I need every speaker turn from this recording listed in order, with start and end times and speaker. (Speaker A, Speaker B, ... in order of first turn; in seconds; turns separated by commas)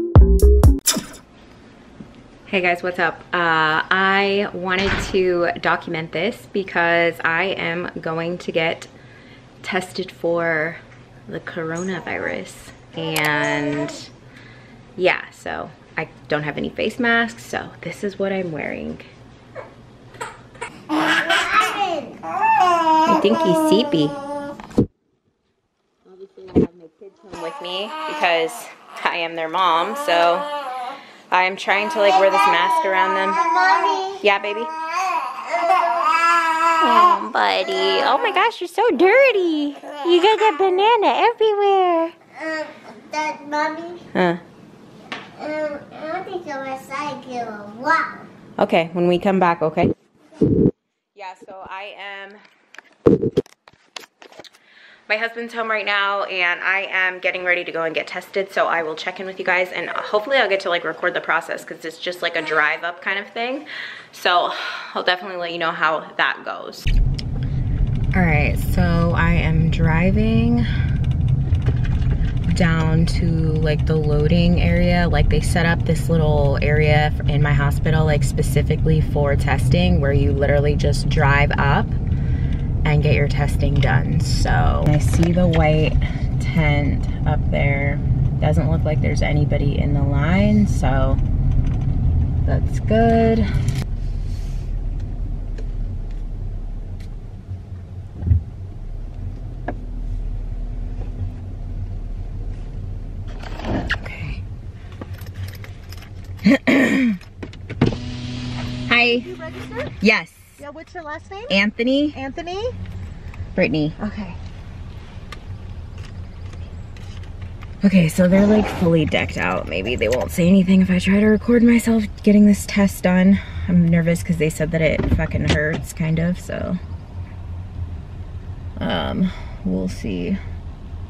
Speaker A: 2.5-8.9, Speaker A: 9.6-14.1, Speaker A: 15.0-19.1, Speaker B: 21.4-22.0, Speaker A: 23.0-24.2, Speaker A: 26.1-30.5, Speaker A: 31.3-33.6, Speaker B: 33.4-34.2, Speaker A: 34.1-34.7, Speaker B: 35.0-36.7, Speaker A: 36.8-42.1, Speaker B: 42.4-44.0, Speaker A: 44.1-44.4, Speaker B: 45.4-48.3, Speaker A: 48.6-49.9, Speaker A: 51.1-52.4, Speaker A: 55.1-66.9, Speaker A: 68.1-70.7, Speaker A: 72.5-82.0, Speaker A: 82.8-91.2, Speaker A: 92.5-93.5, Speaker A: 103.9-104.4, Speaker A: 106.4-107.2, Speaker A: 108.9-109.3, Speaker C: 109.0-109.9, Speaker A: 110.0-110.6, Speaker C: 110.6-111.6, Speaker A: 111.5-112.2, Speaker C: 112.1-112.7, Speaker A: 113.5-114.0, Speaker C: 114.0-114.4, Speaker A: 117.8-126.8, Speaker A: 128.8-130.4